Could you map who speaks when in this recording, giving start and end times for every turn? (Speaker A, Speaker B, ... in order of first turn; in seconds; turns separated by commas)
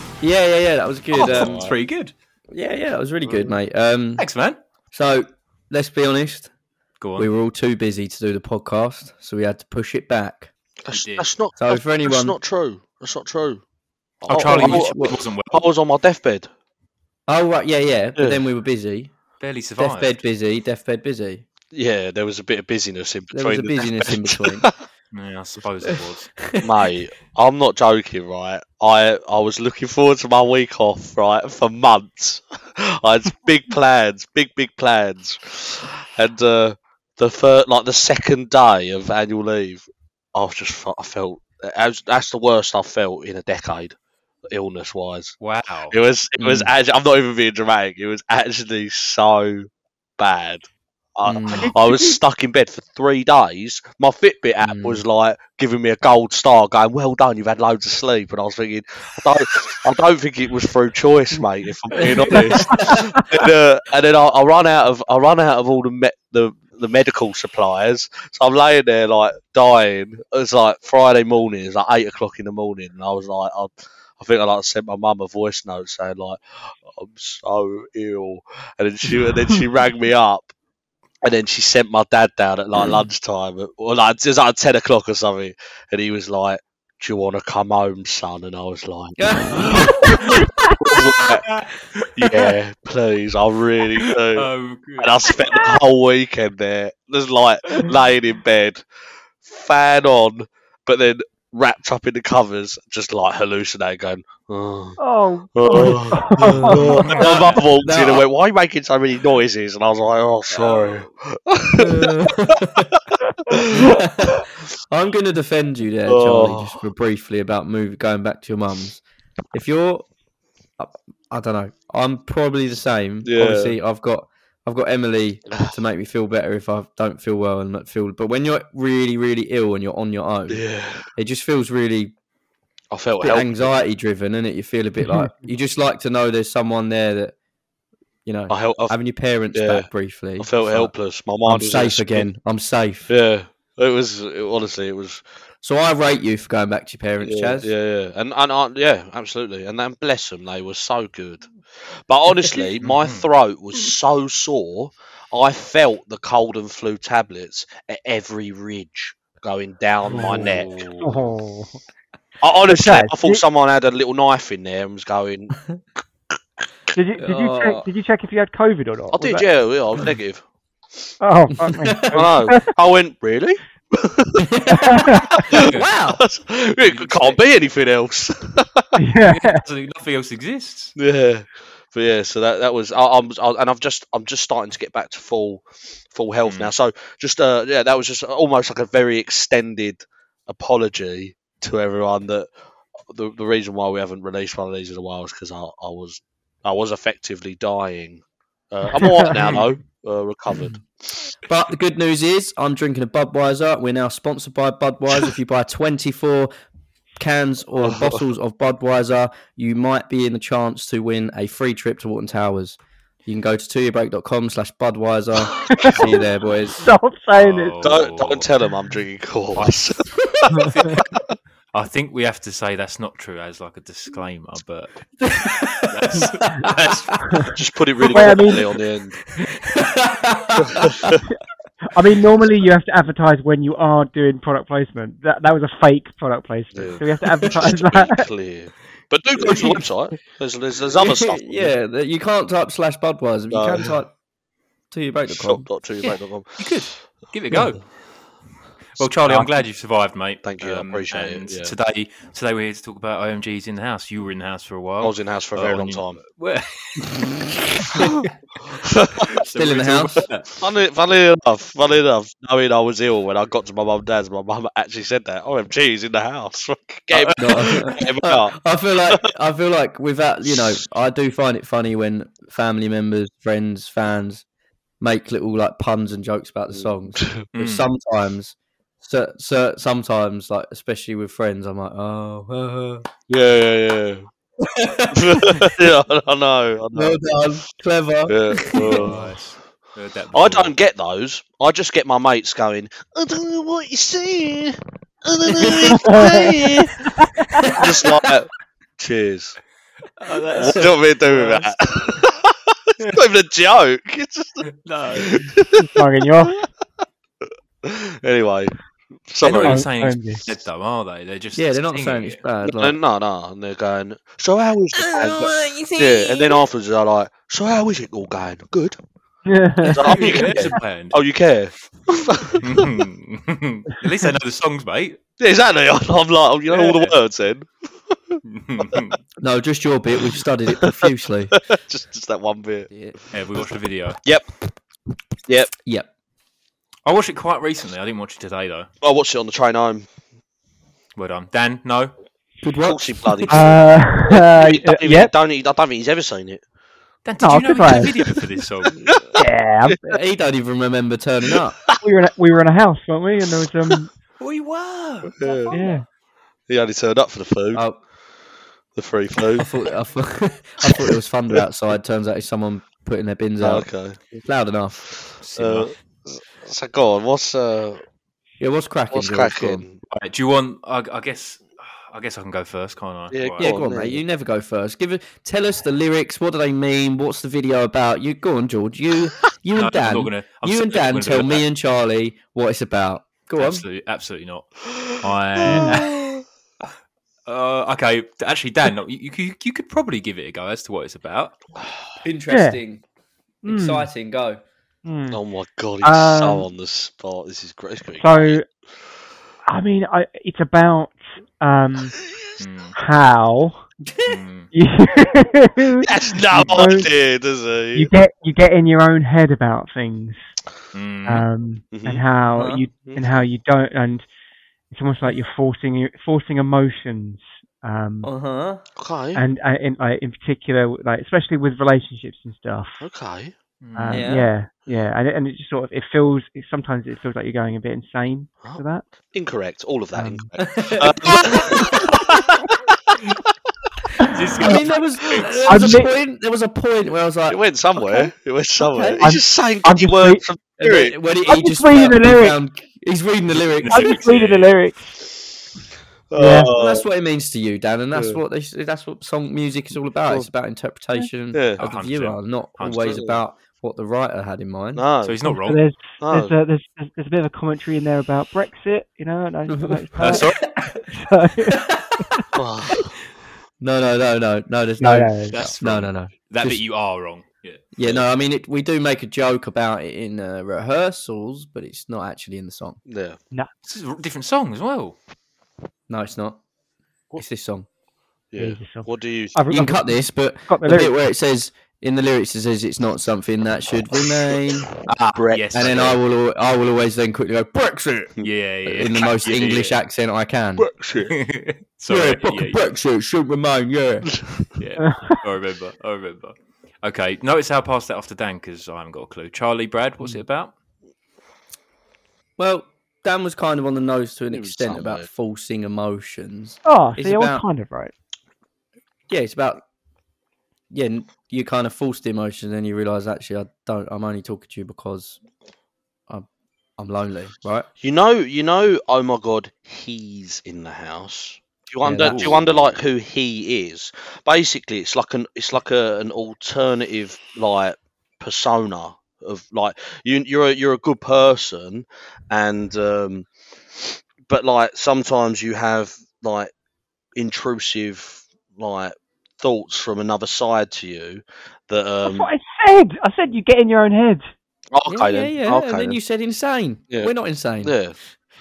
Speaker A: 0.2-1.7, Speaker B: 1.1-2.1, Speaker C: 1.3-1.8, Speaker A: 2.5-4.3, Speaker B: 4.2-4.6, Speaker A: 4.9-6.5, Speaker B: 7.0-7.3, Speaker A: 7.2-10.5, Speaker C: 10.8-13.6, Speaker B: 10.9-11.3, Speaker A: 11.6-12.4, Speaker C: 14.2-16.5, Speaker B: 14.3-15.6, Speaker A: 14.4-15.2, Speaker A: 17.3-19.1, Speaker B: 19.4-20.1, Speaker A: 19.8-21.4, Speaker C: 21.7-24.7, Speaker A: 23.3-24.7, Speaker B: 25.1-26.4, Speaker A: 25.9-26.7, Speaker C: 26.6-44.0, Speaker C: 44.5-45.4, Speaker B: 45.4-46.0, Speaker C: 45.9-80.5, Speaker A: 46.4-46.7, Speaker A: 51.2-51.7, Speaker D: 51.5-52.2, Speaker A: 54.6-55.0, Speaker A: 62.2-62.9, Speaker D: 62.7-63.1, Speaker C: 81.2-91.5, Speaker A: 89.2-91.1, Speaker D: 90.3-90.7, Speaker C: 92.2-98.8, Speaker B: 94.3-95.7, Speaker C: 99.4-105.0, Speaker D: 105.0-107.3, Speaker C: 105.5-112.8, Speaker A: 106.4-107.1, Speaker B: 106.8-107.7, Speaker A: 107.8-108.3, Speaker B: 110.6-111.0, Speaker A: 111.8-112.9, Speaker C: 113.5-114.4, Speaker A: 113.7-119.0, Speaker C: 116.1-116.8, Speaker A: 119.5-120.1, Speaker A: 120.8-130.6, Speaker C: 123.2-123.8, Speaker C: 125.5-125.8, Speaker C: 130.5-131.1, Speaker A: 131.2-132.1, Speaker C: 132.9-133.7, Speaker A: 133.2-137.3, Speaker A: 138.3-143.1, Speaker C: 138.5-139.0, Speaker C: 139.5-139.9, Speaker C: 140.4-142.3, Speaker C: 143.1-145.2, Speaker A: 145.6-147.7, Speaker C: 147.2-160.7, Speaker B: 152.8-153.3, Speaker B: 160.1-161.2, Speaker D: 161.0-161.8, Speaker C: 162.4-165.6, Speaker D: 162.7-163.4, Speaker D: 166.9-169.5, Speaker A: 167.2-167.9, Speaker C: 169.2-170.4, Speaker D: 171.2-172.7, Speaker A: 171.6-172.2, Speaker C: 172.1-174.5, Speaker A: 174.4-176.2, Speaker D: 174.9-175.4, Speaker C: 175.5-178.9, Speaker B: 175.5-175.9, Speaker B: 176.8-177.4, Speaker D: 179.0-179.6, Speaker B: 179.2-181.0, Speaker C: 181.0-192.5, Speaker B: 186.4-186.7, Speaker C: 193.0-201.2, Speaker D: 199.0-199.3, Speaker B: 199.4-199.6, Speaker A: 201.5-206.5, Speaker A: 207.2-216.8, Speaker C: 207.8-208.2, Speaker D: 215.7-216.0, Speaker C: 215.9-216.2, Speaker D: 216.8-217.9, Speaker B: 217.4-218.5, Speaker C: 217.8-221.2, Speaker D: 220.5-220.9, Speaker B: 220.7-221.0, Speaker B: 221.7-227.5, Speaker A: 225.2-226.0, Speaker D: 227.2-227.5, Speaker C: 227.6-229.2, Speaker D: 228.1-228.6, Speaker A: 229.7-231.2, Speaker C: 230.7-231.1, Speaker D: 231.9-238.2, Speaker C: 236.7-241.8, Speaker A: 241.0-244.1, Speaker C: 243.5-243.9, Speaker A: 244.9-245.7, Speaker C: 245.3-246.7, Speaker B: 246.6-247.9, Speaker B: 249.0-258.3, Speaker C: 250.4-251.7, Speaker C: 255.0-256.2, Speaker C: 258.7-259.4, Speaker B: 259.3-260.5, Speaker A: 259.5-260.3, Speaker C: 260.6-268.6, Speaker B: 267.1-267.8, Speaker A: 267.4-274.4, Speaker C: 270.5-270.8, Speaker A: 275.0-283.1, Speaker C: 276.7-277.4, Speaker B: 277.6-277.9, Speaker C: 283.3-284.3, Speaker A: 284.6-285.7, Speaker C: 285.1-287.4, Speaker A: 286.9-289.2, Speaker C: 288.3-289.3, Speaker B: 288.8-290.7, Speaker C: 290.3-297.1, Speaker A: 295.5-295.9, Speaker D: 296.0-296.4, Speaker D: 297.1-297.7, Speaker C: 297.7-299.6, Speaker B: 300.2-301.7, Speaker C: 300.5-305.9, Speaker B: 304.8-305.5, Speaker D: 305.8-306.6, Speaker C: 307.8-308.8, Speaker C: 309.3-309.8, Speaker B: 309.4-312.4, Speaker D: 309.6-310.4, Speaker A: 311.6-313.0, Speaker C: 312.6-319.0, Speaker A: 315.1-316.7, Speaker D: 319.5-320.4, Speaker C: 319.8-322.9, Speaker B: 320.0-321.2, Speaker B: 322.6-325.2, Speaker C: 325.4-328.4, Speaker B: 326.7-327.1, Speaker B: 328.4-329.2, Speaker A: 329.4-331.6, Speaker C: 331.5-332.9, Speaker A: 332.9-333.2, Speaker B: 333.3-334.2, Speaker C: 334.2-334.5, Speaker C: 335.5-335.7, Speaker A: 335.8-336.1, Speaker B: 337.1-338.9, Speaker C: 339.0-340.1, Speaker B: 341.2-342.1, Speaker A: 342.6-343.6, Speaker C: 342.9-346.6, Speaker D: 343.5-345.3, Speaker B: 347.2-349.2, Speaker D: 347.4-348.1, Speaker D: 349.4-350.2, Speaker A: 350.0-351.8, Speaker D: 352.0-354.1, Speaker B: 354.4-356.0, Speaker C: 355.3-355.7, Speaker D: 355.7-356.1, Speaker C: 356.7-357.8, Speaker A: 357.7-358.0, Speaker C: 359.0-359.7, Speaker A: 359.6-365.1, Speaker C: 363.6-364.2, Speaker B: 365.4-365.9, Speaker C: 365.6-368.0, Speaker A: 368.6-369.8, Speaker C: 369.1-370.0, Speaker B: 370.1-373.7, Speaker C: 373.3-374.2, Speaker A: 373.6-383.9, Speaker B: 379.8-381.7, Speaker B: 383.6-386.1, Speaker C: 385.6-386.4, Speaker D: 385.7-386.0, Speaker B: 387.5-391.6, Speaker A: 392.2-393.0, Speaker D: 392.5-392.8, Speaker D: 393.6-394.1, Speaker A: 393.6-394.6, Speaker D: 395.1-395.4, Speaker C: 395.3-398.6, Speaker D: 396.0-396.6, Speaker D: 398.2-398.6, Speaker D: 399.7-402.2, Speaker B: 402.6-403.0, Speaker D: 403.0-403.9, Speaker A: 404.1-404.4, Speaker B: 404.3-404.7, Speaker D: 404.7-407.1, Speaker C: 406.1-408.1, Speaker D: 407.9-410.4, Speaker B: 410.9-411.5, Speaker D: 411.3-414.2, Speaker C: 411.9-412.2, Speaker A: 412.6-412.8, Speaker C: 413.1-413.3, Speaker D: 414.9-418.3, Speaker A: 418.2-418.8, Speaker C: 419.0-419.4, Speaker D: 419.4-423.0, Speaker C: 423.0-423.5, Speaker B: 423.8-424.3, Speaker D: 424.0-429.1, Speaker A: 424.1-424.5, Speaker C: 428.6-433.4, Speaker D: 430.1-430.5, Speaker A: 430.6-432.1, Speaker B: 434.3-435.5, Speaker A: 434.6-437.6, Speaker D: 435.7-436.1, Speaker C: 437.5-441.2, Speaker A: 438.8-439.2, Speaker D: 439.2-440.4, Speaker A: 440.8-444.2, Speaker D: 441.5-442.6, Speaker B: 443.8-444.7, Speaker D: 443.9-445.3, Speaker C: 446.3-447.0, Speaker D: 446.4-446.7, Speaker A: 446.7-455.1, Speaker C: 448.1-448.4, Speaker C: 451.5-451.8, Speaker B: 451.8-453.2, Speaker C: 453.1-453.4, Speaker C: 454.9-455.4, Speaker B: 455.2-455.9, Speaker D: 455.5-463.0, Speaker C: 456.2-456.5, Speaker A: 459.7-460.9, Speaker B: 460.2-460.8, Speaker C: 462.5-463.1, Speaker A: 463.8-466.8, Speaker D: 465.0-465.6, Speaker B: 465.5-467.9, Speaker A: 467.9-473.0, Speaker C: 473.1-473.4, Speaker B: 473.9-475.2, Speaker A: 476.1-476.6, Speaker A: 477.3-477.9, Speaker C: 478.5-479.6, Speaker D: 478.6-481.1, Speaker A: 479.7-484.9, Speaker B: 485.2-486.1, Speaker C: 485.3-486.2, Speaker A: 485.7-490.9, Speaker B: 488.4-490.0, Speaker C: 490.8-491.4, Speaker B: 491.3-492.8, Speaker A: 492.1-494.4, Speaker B: 494.8-500.7, Speaker D: 495.0-495.4, Speaker A: 502.6-507.6, Speaker C: 504.5-505.3, Speaker D: 506.9-508.1, Speaker A: 509.3-509.8, Speaker A: 510.9-515.4, Speaker A: 517.0-517.9, Speaker C: 518.0-536.7, Speaker A: 522.0-522.6, Speaker B: 522.2-522.9, Speaker C: 537.4-542.5, Speaker D: 542.2-544.5, Speaker C: 544.9-546.2, Speaker A: 545.1-548.0, Speaker C: 547.8-548.1